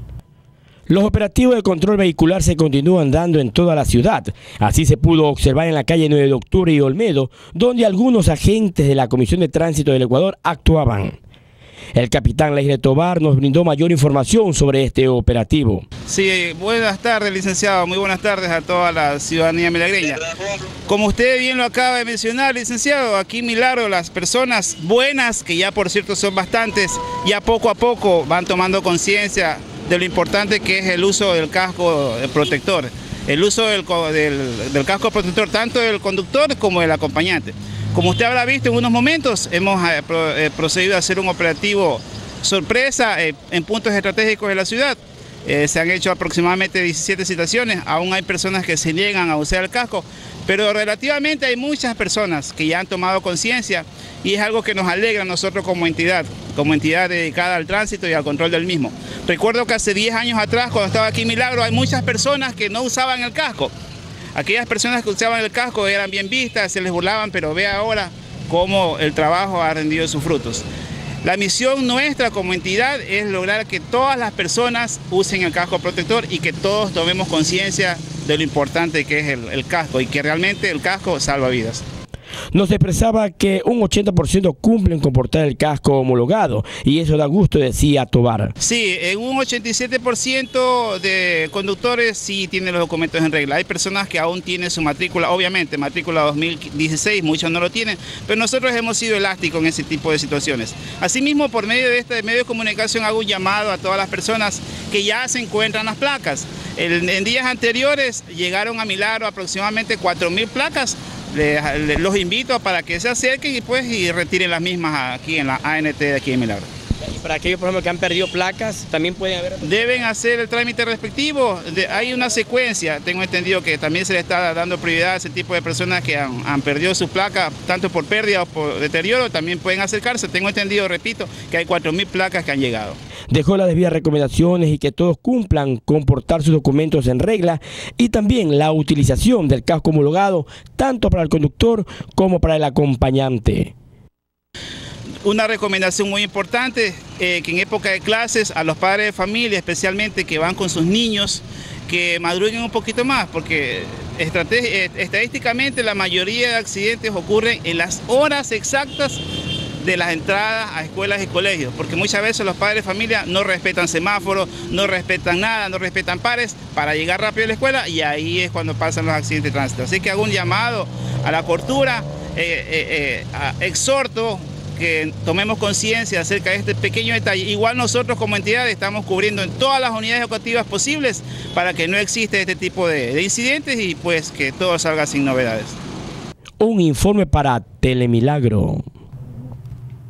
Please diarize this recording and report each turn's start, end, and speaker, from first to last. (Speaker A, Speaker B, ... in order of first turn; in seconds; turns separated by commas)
Speaker A: 0.9-11.2, Speaker A: 11.9-15.8, Speaker B: 16.1-20.2, Speaker B: 20.9-63.7, Speaker B: 64.3-70.7, Speaker B: 71.2-81.8, Speaker A: 82.5-88.5, Speaker B: 88.6-116.7, Speaker C: 117.1-119.7, Speaker B: 119.6-133.0, Speaker A: 133.3-143.7, Speaker B: 145.2-159.2, Speaker B: 159.8-185.8, Speaker A: 186.6-188.8